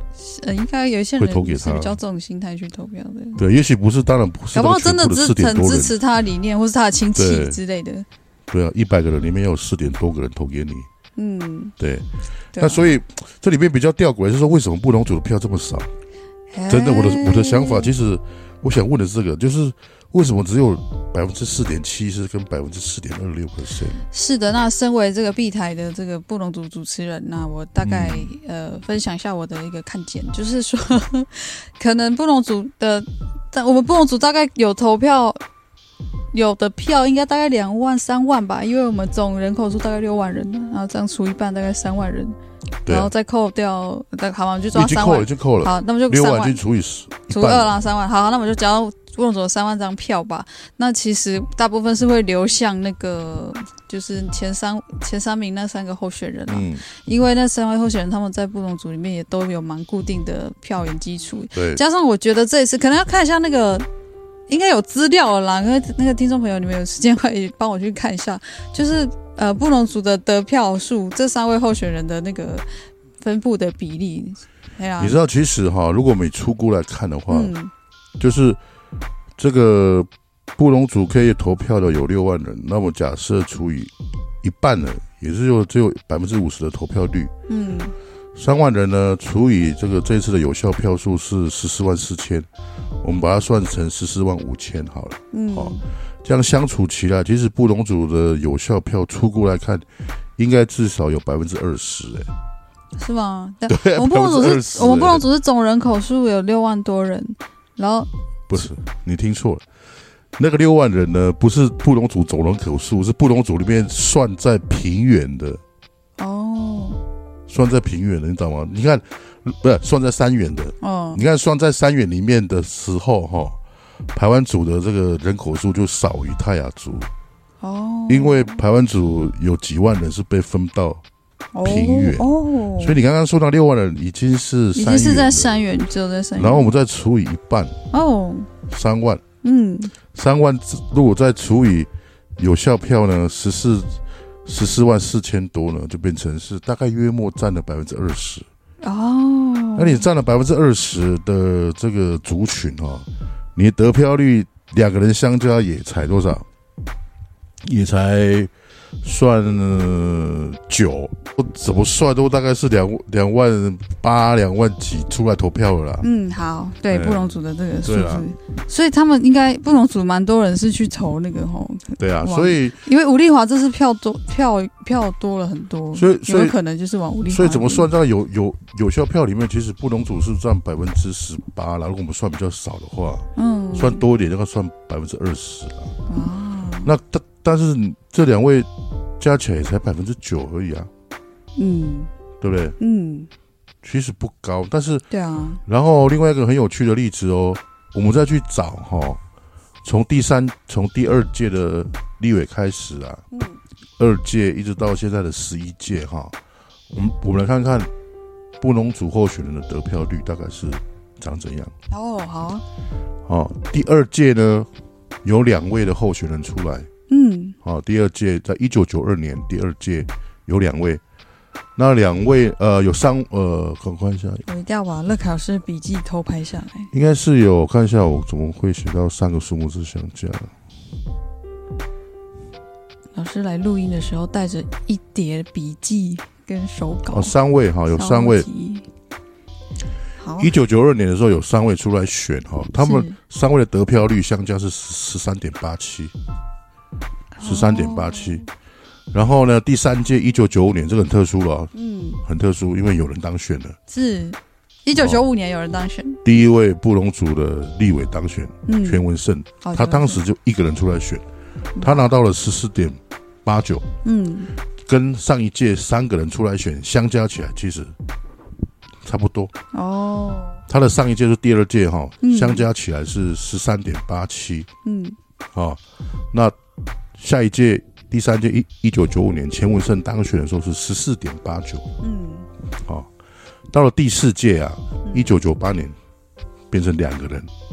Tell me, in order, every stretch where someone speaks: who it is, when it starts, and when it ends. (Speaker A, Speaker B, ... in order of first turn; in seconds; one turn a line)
Speaker A: 0.2-3.4
Speaker B: 1.2-2.0
Speaker B: 3.4-6.0
Speaker A: 4.5-8.1
Speaker B: 7.1-7.6
Speaker B: 8.5-10.9
Speaker A: 11.2-11.7
Speaker B: 11.8-15.9
Speaker A: 12.5-12.9
Speaker A: 16.5-17.9
Speaker B: 16.7-24.0
Speaker A: 24.1-35.4
Speaker B: 27.8-28.3
Speaker A: 36.3-42.4
Speaker B: 42.8-43.1
Speaker A: 42.9-46.6
Speaker B: 44.7-47.7
Speaker A: 47.3-63.9
Speaker B: 56.5-56.8
Speaker B: 61.5-61.8
Speaker A: 64.5-72.7
Speaker A: 73.2-75.2
Speaker B: 75.0-77.5
Speaker A: 77.3-77.7
Speaker B: 78.2-78.6
Speaker B: 79.4-87.3
Speaker A: 87.5-87.9
Speaker B: 88.3-92.5
Speaker B: 93.0-99.8
Speaker A: 95.3-95.8
Speaker B: 100.4-102.3
Speaker A: 103.0-108.1
Speaker B: 103.7-105.2
Speaker B: 108.5-109.6
Speaker B: 110.3-115.6
Speaker A: 116.2-117.0
Speaker B: 117.5-123.6
Speaker A: 120.8-121.2
Speaker B: 124.1-127.1
Speaker A: 127.6-128.6
Speaker B: 128.1-131.0
Speaker A: 131.5-132.9
Speaker B: 131.6-135.5
Speaker A: 134.7-136.7
Speaker B: 136.3-137.8
Speaker A: 137.9-138.5
Speaker B: 138.7-139.2
Speaker A: 139.4-139.9
Speaker B: 140.1-148.5
Speaker A: 148.8-150.1
Speaker B: 149.8-156.4
Speaker B: 157.6-158.5
Speaker B: 159.0-166.1
Speaker A: 166.0-177.9
Speaker B: 166.9-167.3
Speaker B: 167.8-168.2
Speaker B: 172.0-172.8
Speaker B: 175.9-176.6
Speaker B: 177.3-185.9
Speaker A: 183.3-184.0
Speaker A: 186.1-186.9
Speaker B: 186.8-190.9
Speaker A: 191.6-192.1
Speaker B: 192.4-192.8
Speaker A: 192.8-193.3
Speaker B: 193.8-195.0
Speaker A: 195.1-195.6
Speaker B: 195.7-199.2
Speaker B: 199.8-203.2
Speaker A: 203.3-203.6
Speaker B: 204.0-206.3
Speaker B: 206.9-207.9
Speaker B: 208.6-211.7
Speaker A: 211.9-212.6
Speaker B: 213.2-214.7
Speaker B: 215.2-216.9
Speaker A: 217.1-217.6
Speaker B: 217.6-221.0
Speaker B: 221.8-224.4
Speaker A: 224.4-226.9
Speaker B: 226.9-230.5
Speaker A: 233.1-237.3
Speaker B: 237.1-238.5
Speaker A: 237.9-238.8
Speaker A: 240.2-240.5
Speaker B: 240.4-246.1
Speaker A: 242.8-243.2
Speaker A: 247.3-248.4
Speaker B: 247.4-248.4
Speaker B: 249.1-251.7
Speaker A: 251.7-252.2
Speaker B: 252.2-253.8
Speaker A: 253.9-256.4
Speaker B: 256.2-261.2
Speaker A: 258.6-259.0
Speaker A: 259.6-260.2
Speaker B: 261.8-263.8
Speaker A: 264.0-264.5
Speaker B: 264.8-267.9
Speaker B: 269.0-269.5
Speaker A: 269.7-270.6
Speaker B: 270.7-274.7
Speaker A: 272.2-272.6
Speaker A: 274.8-275.2
Speaker B: 275.5-275.8
Speaker B: 277.2-281.9
Speaker A: 282.0-282.5
Speaker B: 283.7-285.9
Speaker A: 285.0-285.3
Speaker B: 286.7-287.5